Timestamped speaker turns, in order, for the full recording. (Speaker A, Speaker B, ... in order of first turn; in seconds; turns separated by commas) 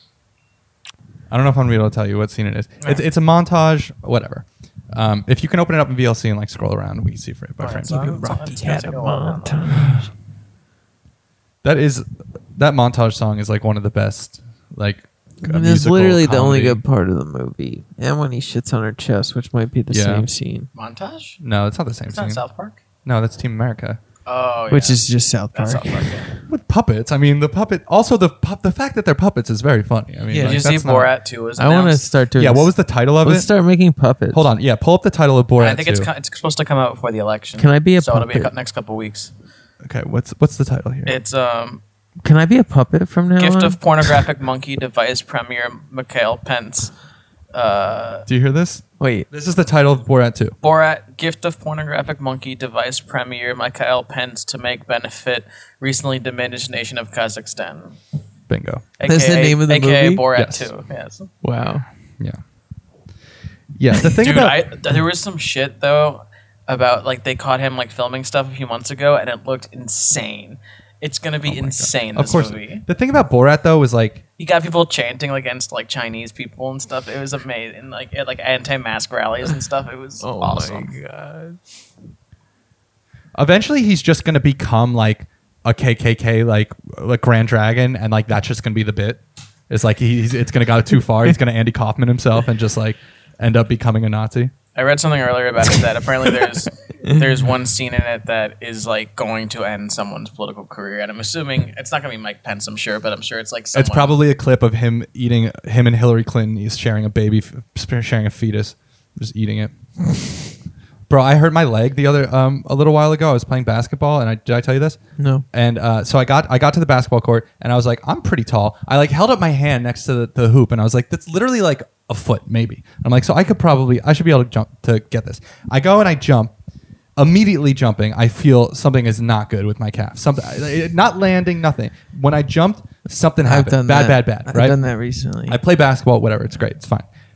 Speaker A: 1.3-8.2, Speaker B: 7.6-9.7, Speaker C: 7.9-10.1, Speaker A: 11.6-16.8, Speaker C: 15.4-20.7, Speaker A: 19.9-20.3, Speaker B: 20.7-21.4, Speaker A: 21.4-22.4, Speaker B: 22.1-22.8, Speaker A: 23.0-24.0, Speaker B: 24.2-25.0, Speaker C: 24.7-26.3, Speaker B: 25.5-26.3, Speaker A: 26.5-31.1, Speaker C: 30.3-30.6, Speaker B: 30.4-32.0, Speaker C: 31.6-34.4, Speaker A: 32.3-33.5, Speaker A: 34.3-36.1, Speaker B: 35.6-39.3, Speaker C: 37.6-38.5, Speaker A: 39.8-41.2, Speaker B: 41.0-41.8, Speaker C: 42.2-43.8, Speaker B: 43.4-46.9, Speaker B: 47.5-48.2, Speaker A: 48.3-50.5, Speaker C: 49.0-49.3, Speaker B: 50.6-58.0, Speaker A: 58.5-58.9, Speaker B: 59.0-61.3, Speaker C: 59.0-60.2, Speaker A: 60.3-60.7, Speaker C: 61.4-61.8, Speaker A: 63.8-64.6, Speaker B: 64.2-72.8, Speaker A: 71.5-74.2, Speaker B: 74.4-80.9, Speaker C: 80.2-81.6, Speaker A: 83.3-94.5, Speaker B: 94.7-104.1, Speaker A: 103.7-109.7, Speaker A: 111.1-115.0, Speaker C: 115.2-115.4, Speaker A: 115.5-126.5, Speaker A: 127.2-134.8, Speaker C: 133.4-135.6, Speaker A: 135.5-137.1